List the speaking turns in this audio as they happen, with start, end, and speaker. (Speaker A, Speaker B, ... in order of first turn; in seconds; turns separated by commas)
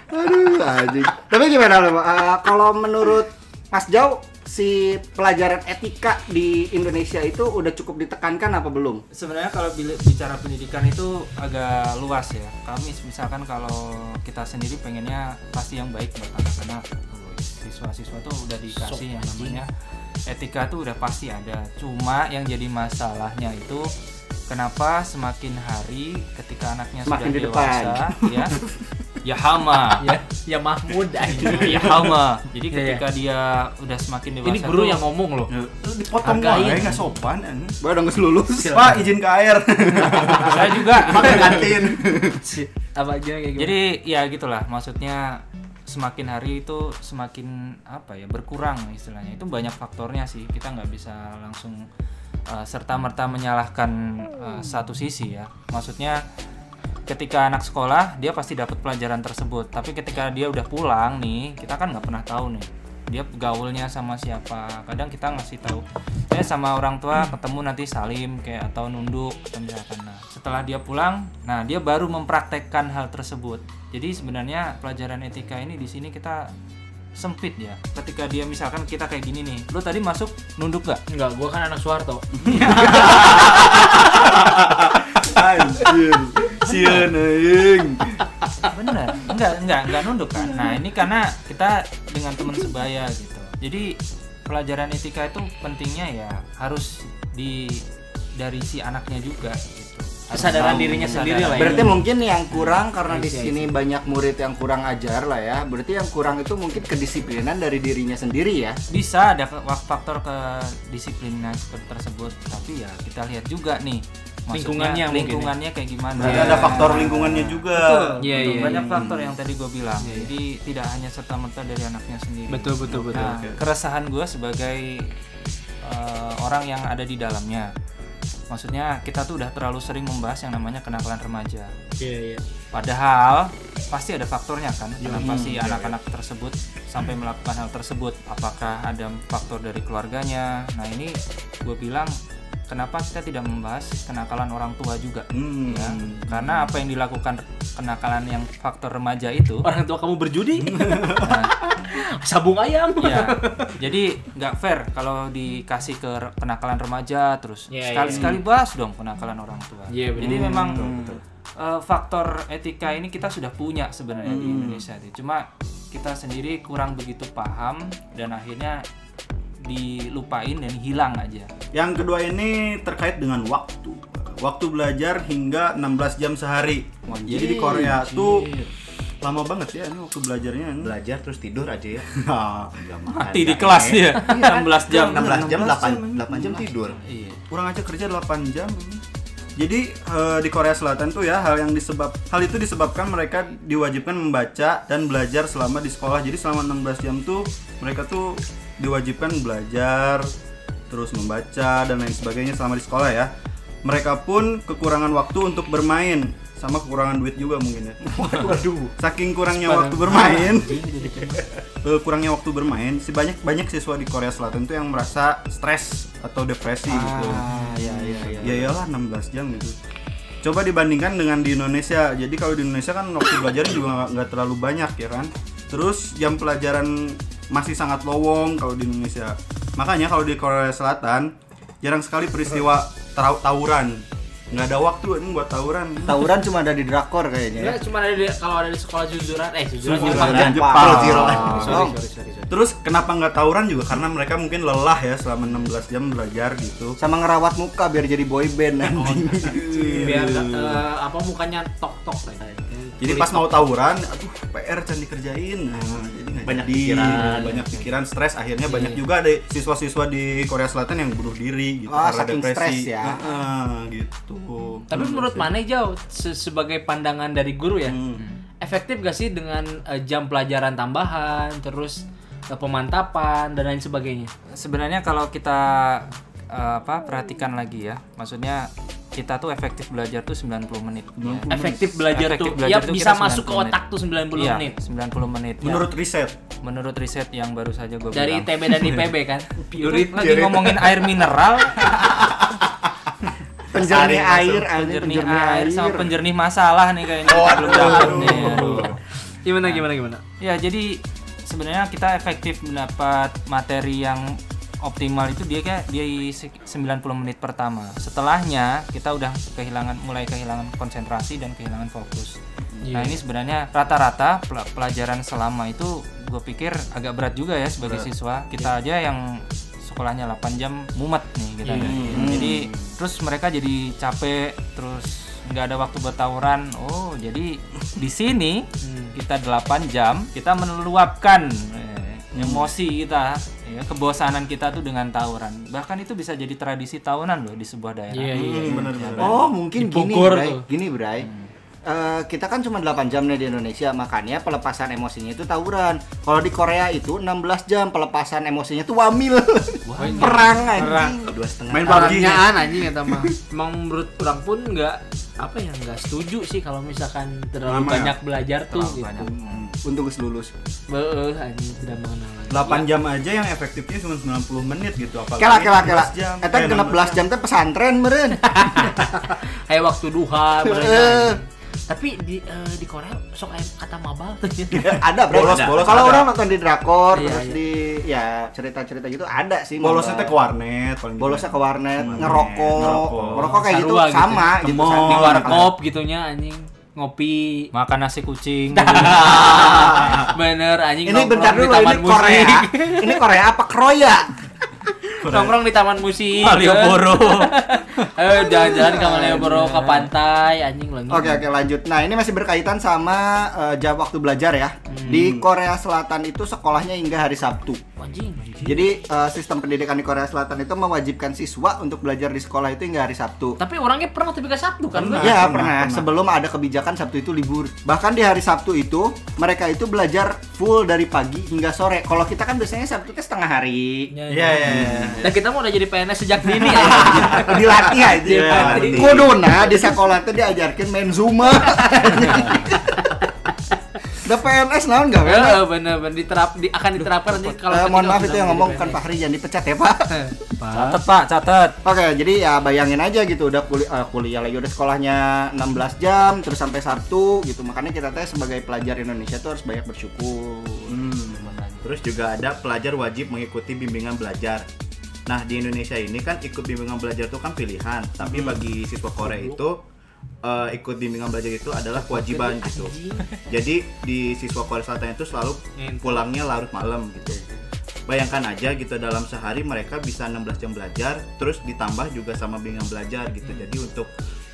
Speaker A: 0.1-9.0, Speaker B: 9.1-19.7, Speaker C: 18.7-19.6, Speaker B: 20.3-23.9, Speaker B: 24.5-28.6, Speaker A: 27.1-28.1, Speaker B: 29.2-30.0, Speaker C: 30.0-32.1, Speaker B: 31.4-35.0, Speaker C: 32.7-33.0, Speaker C: 34.4-35.5, Speaker D: 35.5-37.8, Speaker C: 36.2-37.0, Speaker A: 37.8-39.0, Speaker D: 38.6-42.4, Speaker B: 40.1-41.6, Speaker C: 42.4-43.8, Speaker B: 43.6-51.9, Speaker B: 52.5-56.2, Speaker B: 57.1-76.5, Speaker B: 77.2-81.0, Speaker C: 81.1-83.1, Speaker D: 82.4-88.3, Speaker B: 82.5-82.9, Speaker B: 86.7-87.0, Speaker B: 88.7-97.8, Speaker B: 98.4-102.0, Speaker C: 100.3-102.0, Speaker A: 100.7-108.8, Speaker C: 103.1-103.7, Speaker B: 108.9-125.1, Speaker C: 114.5-115.5, Speaker D: 116.2-119.3, Speaker C: 116.2-117.1, Speaker C: 118.2-119.0, Speaker C: 120.0-120.3, Speaker C: 122.5-123.4, Speaker D: 122.9-123.6, Speaker B: 125.8-127.7, Speaker B: 128.5-131.7, Speaker C: 132.0-132.4, Speaker B: 132.7-142.1, Speaker C: 135.0-135.4, Speaker D: 135.2-135.9, Speaker B: 142.7-149.7, Speaker D: 145.3-146.8, Speaker C: 149.6-153.8, Speaker D: 150.6-151.4, Speaker B: 151.1-151.5, Speaker B: 153.0-168.8, Speaker C: 157.7-158.4, Speaker C: 159.9-160.7, Speaker D: 160.2-161.2, Speaker A: 160.7-161.2, Speaker D: 164.2-164.8, Speaker B: 169.6-171.5, Speaker D: 171.7-178.5, Speaker A: 177.4-177.8, Speaker B: 178.3-178.5, Speaker D: 179.2-180.9, Speaker E: 180.8-182.1, Speaker D: 182.1-182.8, Speaker E: 182.7-187.0, Speaker B: 183.1-185.8, Speaker D: 184.2-186.7, Speaker B: 187.1-187.4, Speaker D: 187.5-189.0, Speaker D: 189.6-200.3, Speaker D: 200.9-203.3, Speaker D: 203.8-210.8, Speaker A: 208.1-208.9, Speaker C: 209.6-211.4, Speaker D: 211.3-217.5, Speaker A: 216.9-218.7, Speaker E: 218.1-218.4, Speaker D: 218.4-219.8, Speaker D: 220.4-236.2, Speaker A: 236.1-237.8, Speaker C: 237.6-242.6, Speaker D: 239.8-241.9, Speaker A: 239.9-241.9, Speaker D: 242.5-247.0, Speaker A: 247.0-250.3, Speaker C: 248.9-253.6, Speaker D: 249.4-250.8, Speaker D: 253.0-265.5, Speaker E: 256.4-257.6, Speaker A: 256.8-257.7, Speaker A: 261.9-263.2, Speaker C: 264.9-268.0, Speaker D: 267.9-268.2, Speaker C: 268.6-274.3, Speaker B: 274.5-281.5, Speaker D: 281.2-282.0, Speaker C: 281.5-284.8, Speaker B: 282.1-283.8, Speaker B: 284.3-285.9, Speaker D: 285.6-286.4, Speaker B: 286.6-288.9, Speaker C: 288.1-289.6, Speaker D: 289.7-291.1, Speaker B: 289.7-292.0, Speaker D: 291.8-292.6, Speaker A: 293.7-296.1, Speaker D: 293.7-294.7, Speaker B: 294.7-299.0, Speaker D: 297.3-299.0, Speaker C: 298.1-298.9, Speaker C: 299.4-300.2, Speaker B: 300.4-312.4, Speaker C: 312.8-313.2, Speaker B: 312.9-339.4, Speaker C: 321.6-322.1, Speaker D: 321.8-322.7, Speaker A: 322.0-322.6, Speaker C: 328.8-329.1, Speaker D: 332.4-332.7, Speaker C: 338.1-338.9, Speaker D: 338.3-339.5, Speaker A: 339.2-341.3, Speaker C: 339.8-340.7, Speaker B: 341.2-341.5, Speaker A: 341.9-351.4, Speaker B: 349.9-351.1, Speaker C: 350.0-350.6, Speaker D: 350.8-351.1, Speaker E: 351.2-352.0, Speaker D: 351.7-353.3, Speaker C: 351.9-359.3, Speaker D: 357.6-358.2, Speaker B: 358.7-359.6, Speaker A: 359.8-360.5, Speaker C: 360.9-362.9, Speaker D: 362.5-367.3, Speaker A: 365.4-369.0, Speaker C: 368.4-375.0, Speaker A: 370.6-371.4, Speaker D: 374.8-376.3, Speaker A: 374.8-380.4, Speaker C: 377.1-377.6, Speaker D: 379.8-383.5, Speaker A: 381.2-385.7, Speaker C: 383.4-387.7, Speaker D: 384.6-385.7, Speaker B: 387.7-389.4, Speaker C: 388.7-393.2, Speaker A: 389.2-390.2, Speaker A: 391.1-394.3, Speaker C: 395.1-401.4, Speaker D: 395.2-395.6, Speaker B: 396.3-398.1, Speaker A: 398.7-399.6, Speaker B: 399.5-400.1, Speaker A: 401.1-407.8, Speaker C: 404.9-405.3, Speaker D: 405.1-405.5, Speaker C: 408.0-408.6, Speaker A: 408.6-413.6, Speaker C: 413.6-415.4, Speaker D: 414.9-416.1, Speaker A: 415.2-424.1, Speaker C: 424.1-429.3, Speaker D: 424.3-425.3, Speaker A: 424.6-425.2, Speaker A: 426.7-433.2, Speaker D: 426.8-429.4, Speaker C: 431.7-433.2, Speaker A: 434.1-435.6, Speaker C: 435.2-439.0, Speaker A: 437.7-440.4, Speaker C: 440.1-441.0, Speaker B: 440.7-441.8, Speaker A: 441.8-451.0, Speaker D: 450.9-451.6, Speaker B: 451.1-451.9, Speaker E: 451.8-454.7, Speaker E: 455.3-459.8, Speaker C: 459.2-459.6, Speaker E: 460.4-467.4, Speaker C: 461.9-463.3, Speaker C: 465.8-466.3, Speaker E: 468.1-474.1